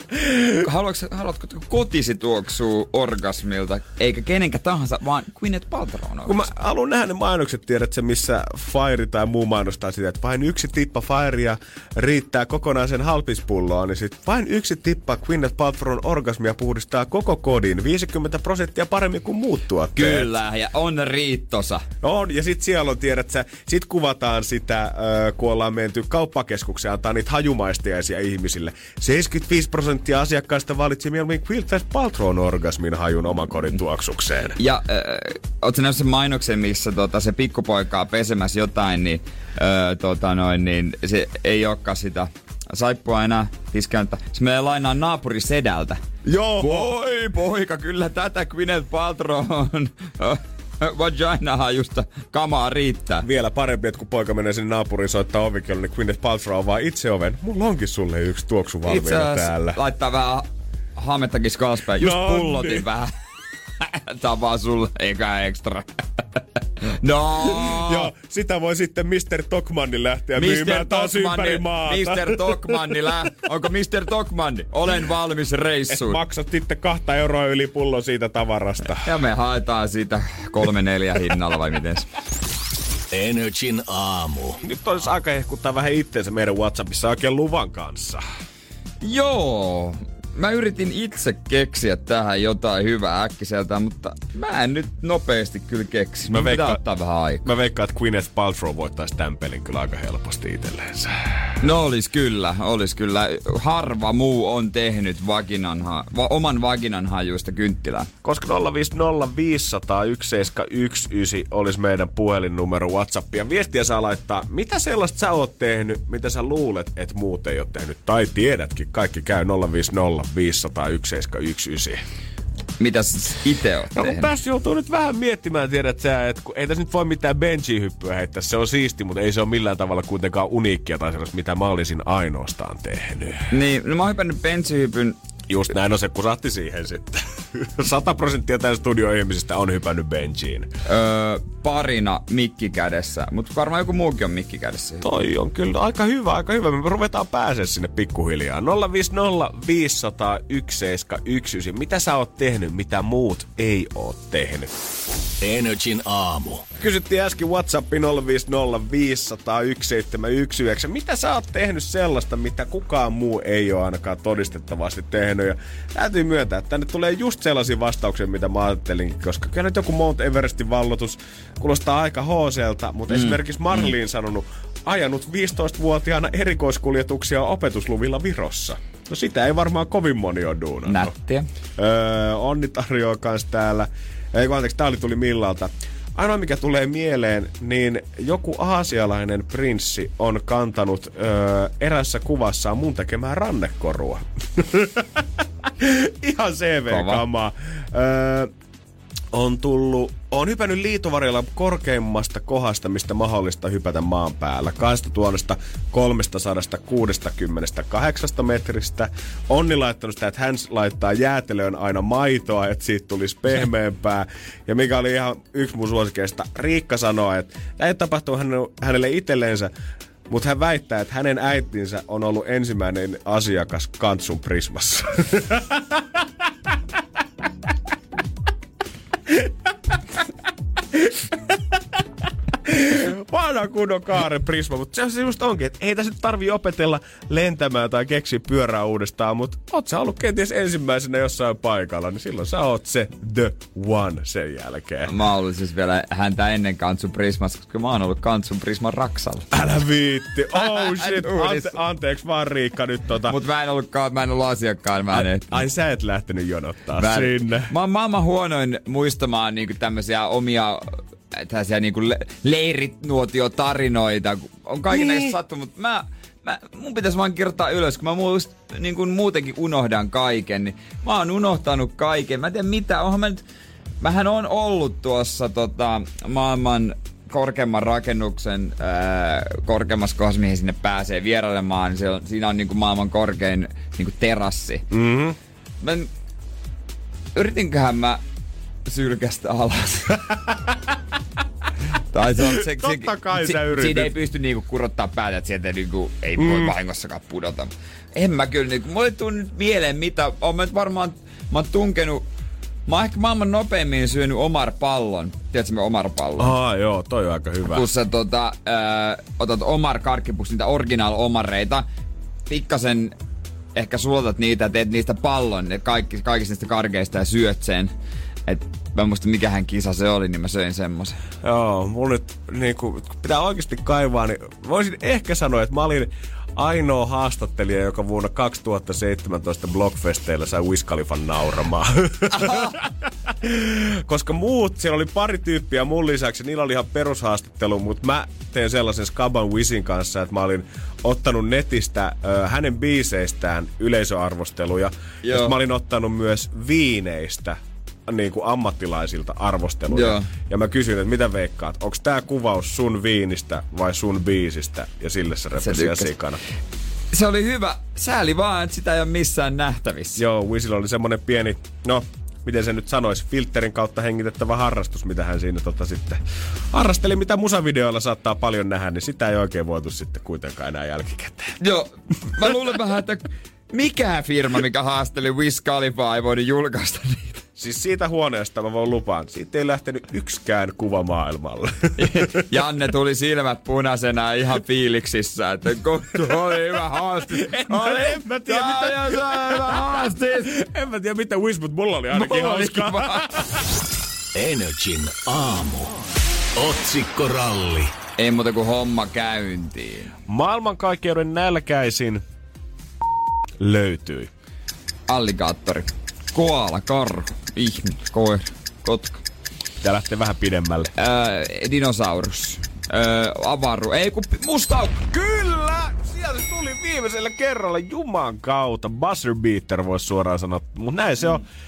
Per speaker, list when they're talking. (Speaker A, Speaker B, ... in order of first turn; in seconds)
Speaker A: 0.1-0.5, 6.2-20.3, 22.0-34.6, 46.2-46.9, 53.2-59.8, 62.0-62.9, 67.4-72.8, 75.9-79.1, 84.6-88.2, 96.3-96.8, 97.4-101.5, 108.2-122.0, 124.0-133.5, 135.5-140.7, 145.0-154.7, 156.8-181.1, 181.8-195.2, 195.8-198.5, 199.3-219.7, 220.3-226.0, 230.9-232.0, 232.6-245.1, 249.5-253.4, 255.1-257.7, 264.9-265.3, 284.9-285.4, 292.4-294.1, 296.4-296.8, 306.4-307.9, 321.4-356.4, 360.2-371.6, 377.6-382.4, 387.4-393.4, 400.3-402.2, 403.6-404.3, 409.8-410.9, 415.1-421.4
Speaker B: 0.6-6.4, 20.0-21.9, 34.6-46.0, 46.6-53.3, 58.9-63.1, 63.8-65.9, 66.8-68.1, 70.4-76.2, 79.0-82.1, 89.0-97.5, 101.6-108.1, 122.8-124.3, 133.5-135.2, 140.9-145.1, 173.1-173.4, 180.9-181.5, 196.9-197.2, 245.1-249.5, 250.5-251.8, 253.3-255.6, 257.0-273.4, 274.0-284.9, 285.8-286.1, 287.4-288.2, 288.9-290.3, 292.1-302.2, 302.9-306.6, 307.7-311.9, 312.5-313.1, 313.8-317.9, 318.5-321.2, 332.4-332.8, 345.2-345.5, 349.9-350.3, 355.6-356.1, 357.1-360.2, 371.6-377.4, 382.0-390.5, 392.1-393.3, 398.2-400.1, 405.1-409.2, 411.0-415.1
Speaker C: 83.1-84.6, 155.4-156.7, 394.4-395.9, 396.6-397.9